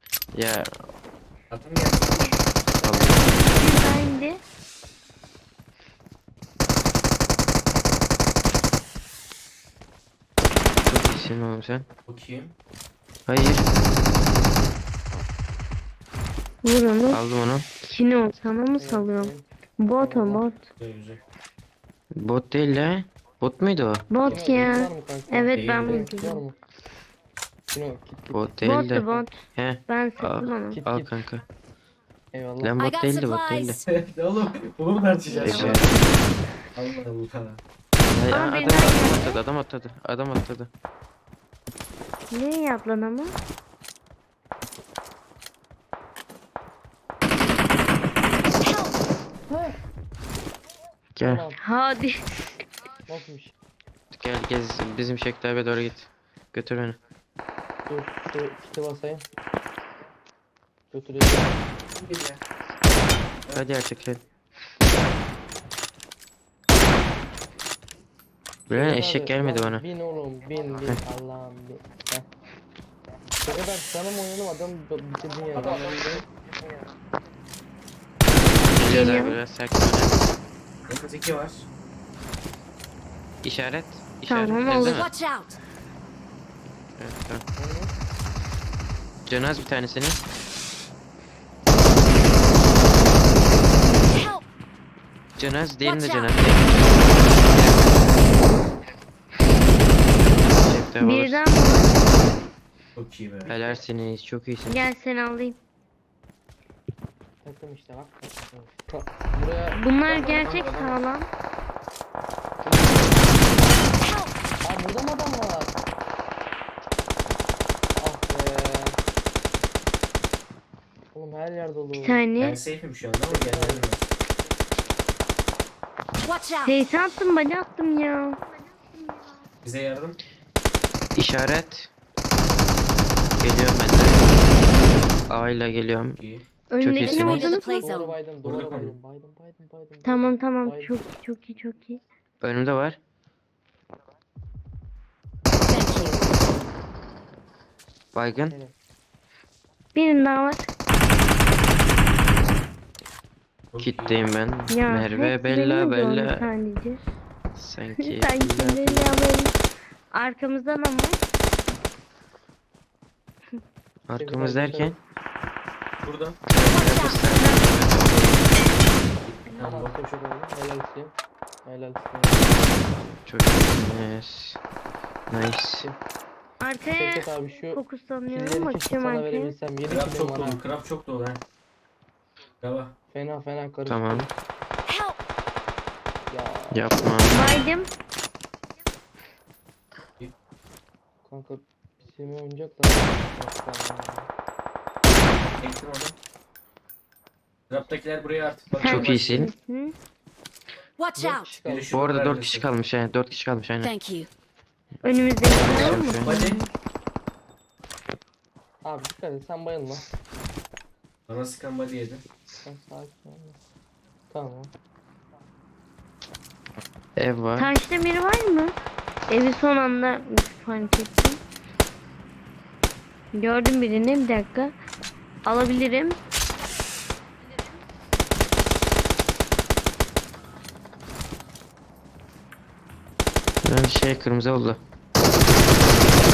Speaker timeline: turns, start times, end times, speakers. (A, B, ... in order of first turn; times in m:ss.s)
0:00.3-0:00.7 A
0:01.5-0:02.4 B
0:02.7-0:03.4 C
0:02.8-0:03.4 A
0:03.5-0:04.4 D
0:10.9-0:11.9 A
0:12.1-0:12.6 B
0:13.3-0:13.7 A
0:16.6-0:17.2 D
0:17.1-0:17.7 A
0:17.8-0:20.6 D
0:18.8-0:19.5 C
0:20.0-0:20.4 C
0:20.8-0:21.2 B
0:22.2-0:24.1 A
0:24.1-0:26.4 D
0:24.2-0:24.8 B
0:24.3-0:26.6 C
0:25.6-0:26.1 B
0:27.7-0:29.3 C
0:28.3-0:31.4 A
0:28.6-0:30.8 D
0:30.7-0:31.1 C
0:32.3-0:32.8 C
0:32.6-0:33.8 A
0:32.8-0:33.8 E
0:33.9-0:36.0 B
0:35.3-0:35.8 D
0:35.4-0:35.9 A
0:36.7-0:37.6 B
0:38.1-0:40.7 A
0:38.3-0:39.4 D
0:42.3-0:43.3 D
0:49.5-0:49.8 C
0:51.2-0:51.4 A
0:51.2-0:51.6 C
0:51.6-0:52.2 D
0:53.1-0:53.6 C
0:54.1-0:57.0 A
0:57.9-0:59.3 C
1:00.9-1:01.6 C
1:01.9-1:02.4 B
1:03.5-1:04.2 A
1:08.7-1:09.8 A
1:08.7-1:12.3 C
1:13.4-1:16.2 C
1:15.5-1:16.3 B
1:18.7-1:20.2 A
1:18.9-1:19.4 D
1:20.9-1:21.7 B
1:23.4-1:25.1 A
1:24.3-1:25.1 D
1:25.0-1:25.6 E
1:27.0-1:27.4 A
1:27.6-1:27.9 C
1:29.3-1:30.2 A
1:34.1-1:34.4 E
1:35.4-1:38.1 A
1:35.8-1:36.3 E
1:40.4-1:41.5 A
1:41.0-1:42.1 D
1:43.0-1:43.6 B
1:43.5-1:44.8 A
1:44.7-1:45.6 D
1:47.4-1:49.8 C
1:49.8-1:51.3 D
1:50.0-1:51.0 B
1:52.6-1:53.9 C
1:54.0-1:54.3 E
1:54.6-1:55.8 C
1:58.0-1:59.0 C
2:01.1-2:02.2 C
2:02.0-2:02.6 D
2:02.4-2:04.0 B
2:03.3-2:03.9 C
2:06.2-2:06.8 E
2:06.6-2:08.4 D
2:09.6-2:10.2 B
2:11.2-2:11.9 A
2:13.4-2:14.4 A
2:15.3-2:16.2 A
2:16.2-2:16.5 B
2:16.7-2:17.8 D
2:16.8-2:17.5 A
2:17.0-2:18.2 E
2:17.1-2:21.0 C
2:18.4-2:19.0 B
2:20.0-2:22.0 D
2:22.4-2:23.0 A
2:25.6-2:26.3 E
2:28.2-2:28.6 A
2:28.5-2:28.8 C
2:30.0-2:30.7 D
2:33.7-2:34.7 B
2:33.8-2:36.5 A
2:34.7-2:37.0 D
2:37.6-2:39.2 A
2:38.0-2:39.6 D
2:40.1-2:41.2 D
2:44.1-2:45.0 A
2:44.2-2:45.0 C
2:46.0-2:46.4 B
2:46.5-2:48.5 A
2:46.6-2:47.2 E
2:47.4-2:47.6 D
2:49.1-2:50.2 B
2:49.6-2:52.6 C
2:53.0-2:54.6 A
2:55.3-2:55.9 A
2:56.6-2:59.6 D
2:56.9-3:00.6 C
2:59.8-3:01.4 B
3:02.6-3:03.0 B
3:03.1-3:04.3 C
3:03.9-3:04.3 A
3:06.3-3:06.9 C
3:06.7-3:07.4 A
3:07.3-3:07.9 D
3:11.2-3:14.3 C
3:15.6-3:16.2 B
3:17.7-3:19.5 B
3:18.8-3:19.9 D
3:18.8-3:19.5 A
3:21.0-3:21.5 E
3:21.2-3:21.9 C
3:21.6-3:22.7 B
3:21.9-3:23.9 A
3:23.8-3:24.3 E
3:25.0-3:26.7 D
3:25.5-3:26.4 A
3:25.5-3:26.6 B
3:28.8-3:30.1 C
3:31.3-3:32.2 B
3:32.6-3:33.6 C
3:34.3-3:34.7 C
3:37.2-3:37.7 A
3:37.6-3:38.7 D
3:39.3-3:41.4 D
3:43.4-3:44.7 D
3:45.4-3:46.2 D
3:53.6-3:54.8 A